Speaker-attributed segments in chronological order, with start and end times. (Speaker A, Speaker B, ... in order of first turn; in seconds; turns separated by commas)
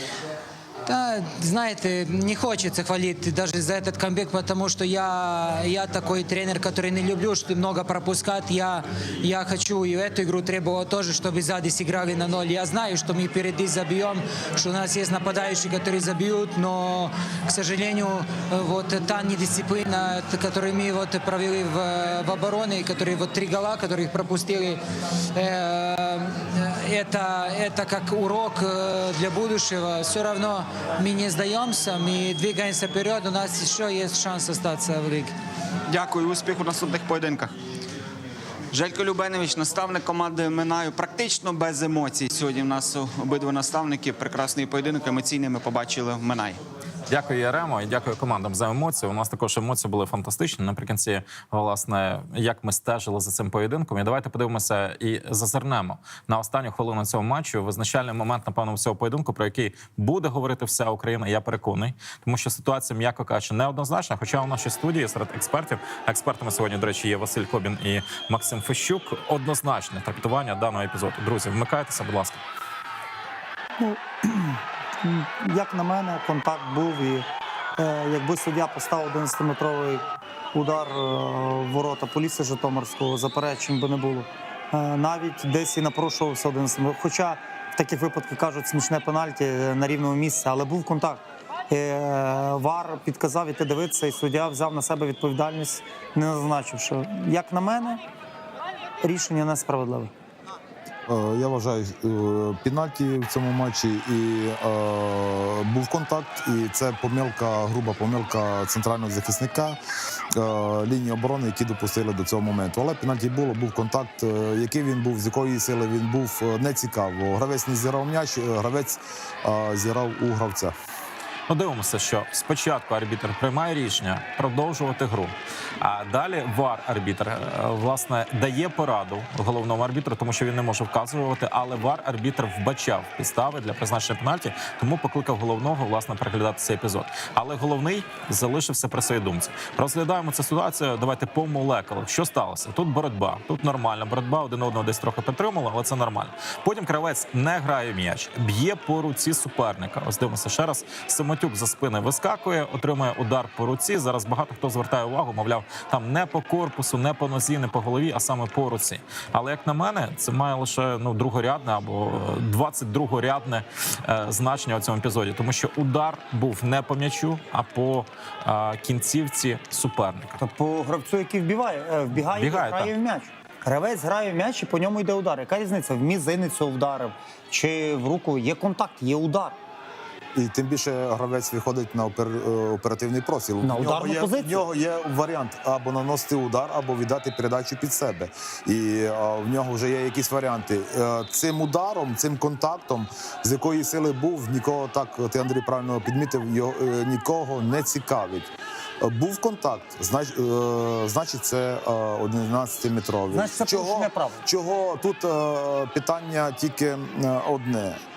Speaker A: 0.8-24.8, Speaker A: 25.3-35.3, Speaker B: 35.9-37.5, Speaker B: 38.7-46.6, Speaker C: 47.1-72.4, Speaker D: 73.8-98.0, Speaker D: 99.0-100.1, Speaker E: 101.1-109.8, Speaker E: 110.3-120.7, Speaker C: 121.5-170.4, Speaker D: 170.4-179.6, Speaker C: 172.1-172.9, Speaker E: 180.3-208.0, Speaker D: 183.6-184.6, Speaker D: 203.3-204.4